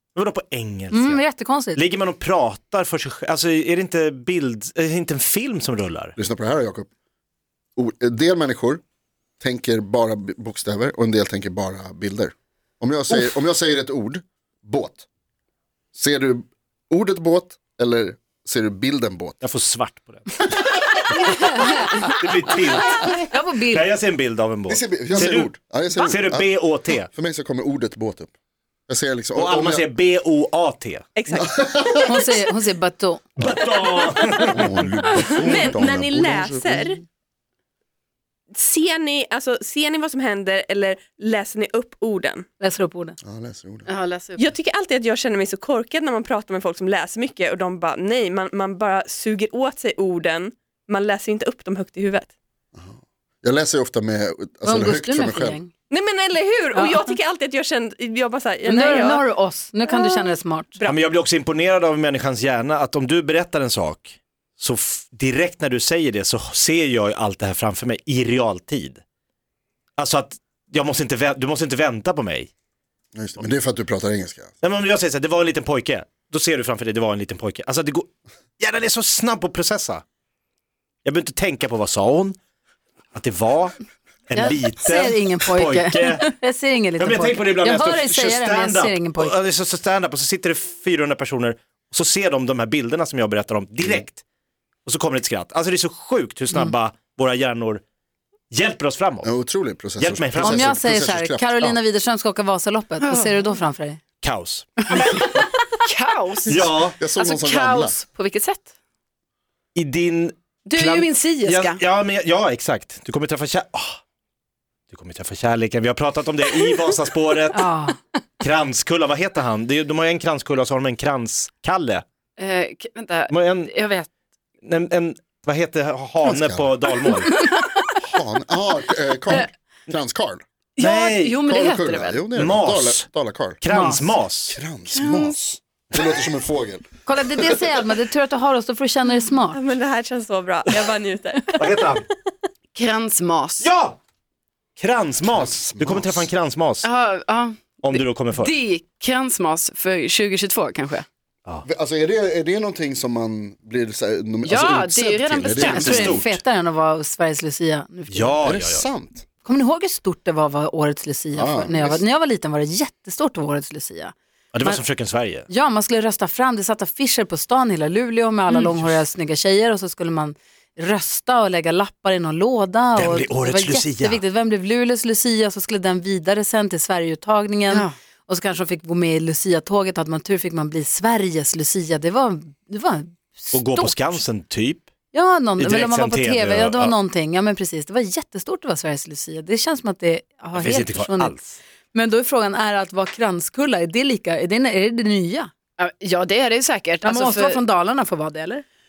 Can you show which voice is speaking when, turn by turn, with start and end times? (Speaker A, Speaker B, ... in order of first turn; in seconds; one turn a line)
Speaker A: 0.1-1.2
Speaker B: 0.9-1.8
Speaker A: 1.8-6.1
Speaker C: 6.2-6.9
Speaker C: 7.8-8.8
Speaker C: 9.4-15.1
Speaker C: 15.9-19.4
Speaker A: 19.4-20.4
Speaker B: 21.2-22.1
Speaker A: 22.1-23.1
Speaker B: 22.9-23.9
Speaker A: 23.7-27.1
Speaker C: 24.7-28.3
Speaker C: 28.9-29.9
Speaker A: 29.4-31.1
Speaker D: 31.2-31.6
Speaker C: 31.3-32.2
Speaker B: 32.0-33.3
Speaker A: 33.4-35.6
Speaker C: 34.5-37.0
Speaker D: 35.2-37.0
Speaker D: 38.5-42.5
Speaker B: 42.6-43.2
Speaker C: 43.2-43.9
Speaker E: 43.9-44.4
Speaker D: 44.4-52.3
Speaker C: 52.8-55.6
Speaker B: 54.6-55.7
Speaker D: 55.9-59.3
Speaker B: 56.7-57.0
Speaker B: 58.7-60.7
Speaker D: 59.9-61.0
Speaker A: 60.9-69.0
Speaker A: 70.0-72.5
Speaker C: 73.2-74.5
Speaker A: 74.6-78.1
Speaker A: 78.6-80.0
Speaker A: 81.0-82.4
Speaker A: 83.1-83.8
Speaker A: 84.3-86.3
Speaker B: 84.3-89.3
Speaker A: 87.0-94.2
Speaker A: 94.9-97.8
Speaker A: 98.5-99.3
Speaker C: 99.2-101.8
Speaker A: 100.0-100.8
Speaker B: 100.4-104.0
Speaker E: 103.0-103.4
Speaker A: 104.2-104.8
Speaker E: 104.8-108.7
Speaker A: 106.5-107.0
Speaker C: 106.9-108.0
Speaker A: 109.8-114.0
Speaker E: 110.7-111.8
Speaker A: 114.9-117.7
Speaker E: 117.5-117.9
Speaker A: 118.4-122.0
Speaker E: 122.4-124.1
Speaker A: 123.3-123.7
Speaker A: 124.6-127.3
Speaker C: 126.2-126.7
Speaker E: 127.2-127.7
Speaker C: 128.1-130.4
Speaker A: 130.8-131.4
Speaker E: 130.8-132.2
Speaker C: 131.4-133.9
Speaker A: 132.3-133.1
Speaker A: 133.6-134.6
Speaker B: 133.7-134.1
Speaker C: 134.5-137.7
Speaker E: 134.9-135.3
Speaker B: 137.1-139.6
Speaker D: 139.5-141.9
Speaker A: 141.6-142.0
Speaker E: 142.7-143.7
Speaker A: 143.6-144.0
Speaker A: 144.8-146.9
Speaker C: 145.3-146.3
Speaker E: 146.8-151.1
Speaker A: 147.8-148.5
Speaker C: 151.6-156.3
Speaker E: 154.4-156.1
Speaker A: 155.6-156.3
Speaker B: 155.6-158.4
Speaker A: 158.1-158.8
Speaker C: 158.4-159.2
Speaker B: 159.4-164.8
Speaker C: 161.3-162.0
Speaker A: 164.5-165.5
Speaker B: 165.5-184.2
Speaker E: 168.5-168.9
Speaker A: 173.0-174.2
Speaker A: 183.5-184.9
Speaker B: 185.1-195.5
Speaker A: 185.6-186.9
Speaker A: 190.6-191.4
Speaker E: 195.8-197.6
Speaker B: 197.0-198.6